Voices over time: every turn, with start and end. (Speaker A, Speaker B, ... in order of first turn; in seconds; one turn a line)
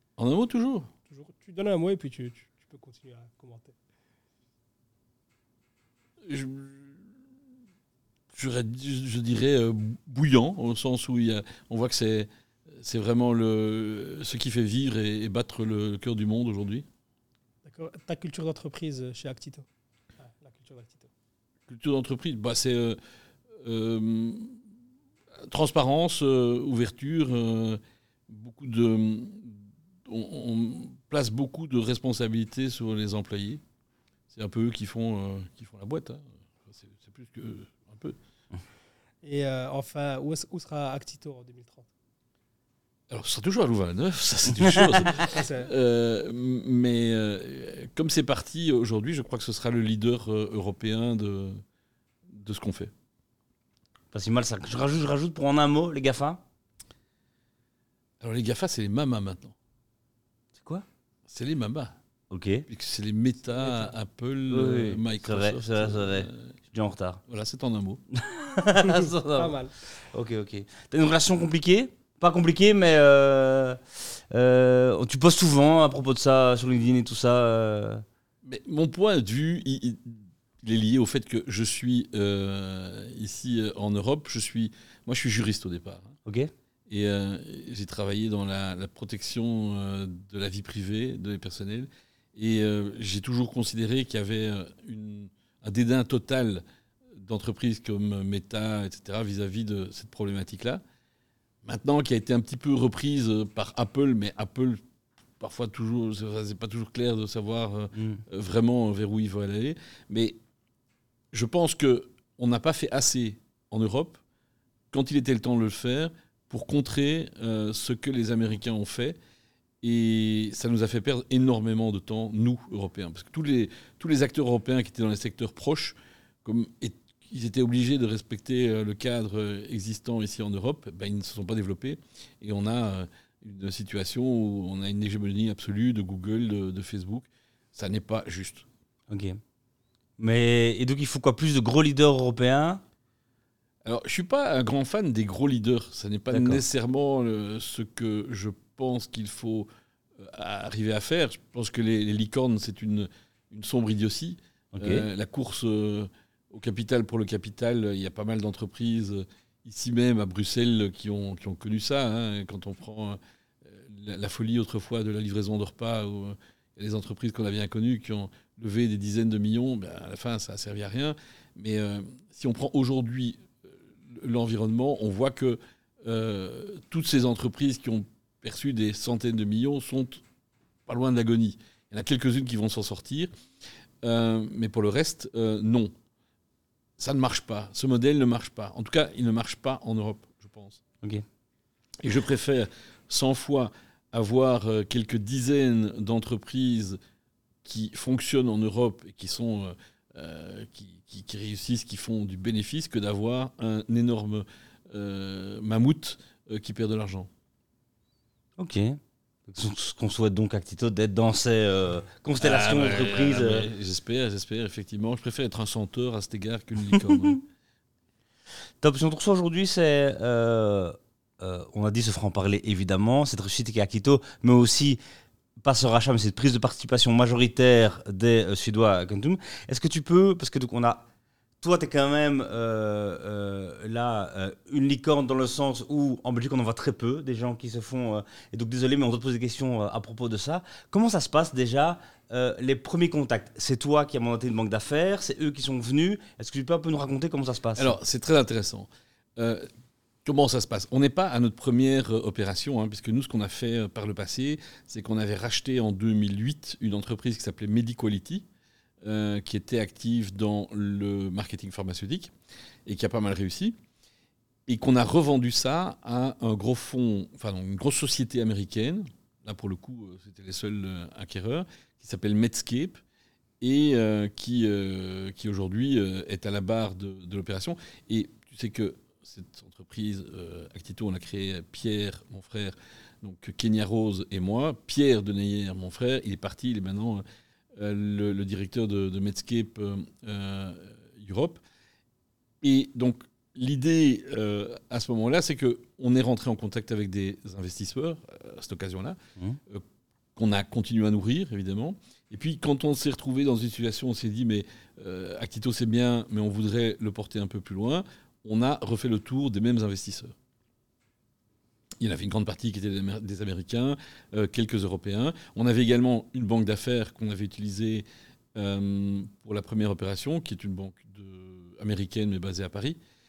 Speaker A: 0.2-0.9
Speaker B: 1.1-3.8
Speaker A: 6.3-7.1
Speaker A: 8.3-16.9
Speaker B: 17.6-19.7
Speaker B: 20.2-21.1
Speaker A: 21.7-23.0
Speaker A: 23.6-24.6
Speaker A: 25.5-33.6
Speaker A: 34.3-38.2
Speaker B: 39.2-41.9
Speaker A: 43.1-51.6
Speaker B: 45.1-45.7
Speaker A: 52.3-52.9
Speaker C: 54.1-56.4
Speaker A: 58.2-59.5
Speaker C: 60.6-60.9
Speaker A: 61.3-62.0
Speaker C: 62.3-62.7
Speaker A: 62.7-66.5
Speaker C: 64.5-67.2
Speaker A: 67.3-68.0
Speaker C: 68.2-69.6
Speaker B: 68.9-69.7
Speaker C: 70.1-73.8
Speaker C: 74.3-78.0
Speaker A: 78.4-86.2
Speaker C: 86.3-86.5
Speaker A: 86.9-96.6
Speaker A: 97.2-100.8
Speaker A: 101.7-104.8
Speaker A: 105.4-110.4
Speaker C: 108.0-108.2
Speaker A: 111.3-114.2
Speaker A: 114.9-119.2
Speaker A: 119.8-138.7
Speaker C: 139.1-139.4
Speaker C: 140.2-142.8
Speaker A: 143.8-180.2
Speaker C: 146.3-146.6
Speaker C: 154.8-155.1
Speaker A: 180.9-183.3
Speaker A: 184.0-185.9
Speaker A: 187.0-190.8
Speaker A: 192.0-197.0
Speaker A: 197.6-207.3
Speaker C: 208.6-213.7
Speaker A: 212.4-217.4
Speaker C: 218.8-225.0
Speaker C: 225.6-231.1
Speaker C: 231.6-248.0
Speaker A: 247.8-249.7
Speaker A: 250.2-258.4
Speaker A: 259.0-262.3
Speaker A: 262.9-263.8
Speaker A: 264.7-273.0
Speaker A: 273.6-287.2
Speaker A: 287.8-291.6
Speaker A: 292.6-299.2
Speaker A: 300.4-310.3
Speaker A: 312.0-323.0